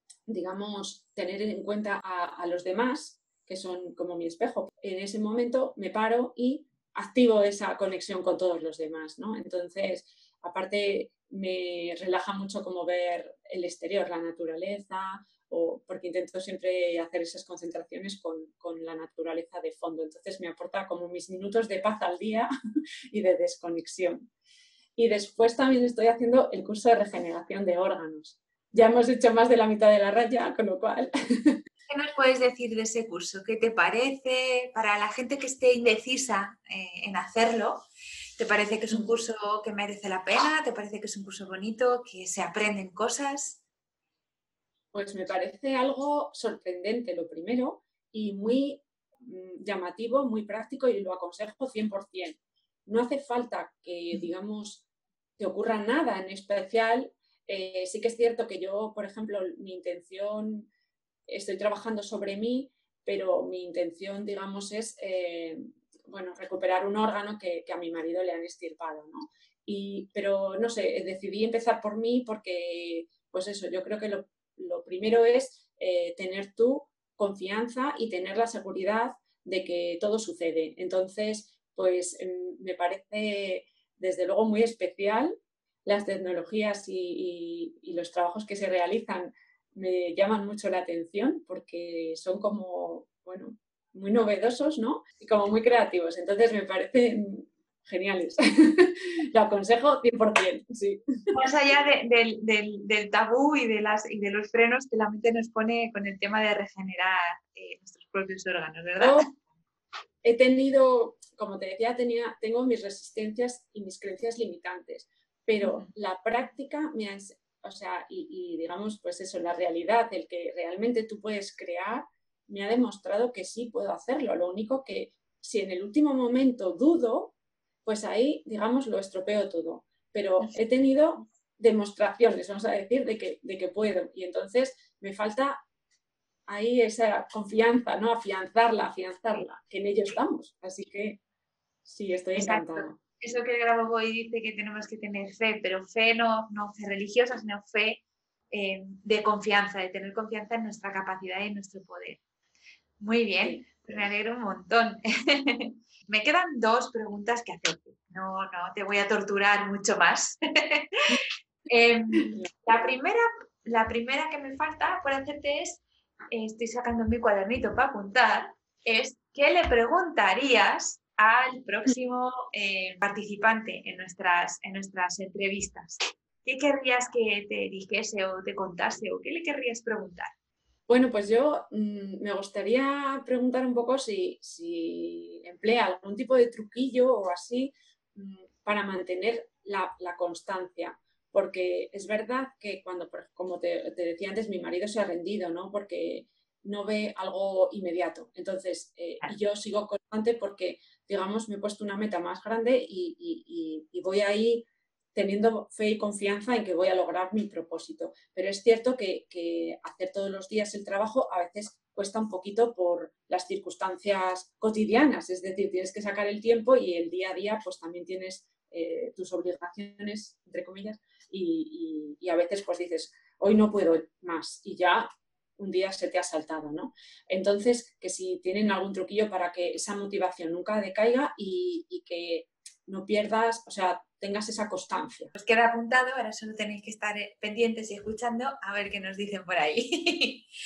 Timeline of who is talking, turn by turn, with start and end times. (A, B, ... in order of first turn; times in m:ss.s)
0:00.3-0:22.5 A
0:23.1-0:24.3 A
0:25.0-0:31.6 A
0:31.9-0:37.8 B
0:38.4-0:43.6 B
0:38.9-0:39.2 A
0:44.9-0:54.9 A
0:55.4-1:00.7 A
1:01.3-1:41.0 A
1:41.3-1:49.2 B
1:49.0-1:49.2 A
1:50.2-2:15.6 A
1:55.6-1:55.9 B
2:16.5-2:21.2 A
2:21.8-2:23.0 A
2:22.4-2:32.2 B
2:33.0-2:41.0 B
2:41.7-3:00.3 B
3:00.9-3:45.1 A
3:45.6-3:55.3 A
3:55.3-4:00.5 B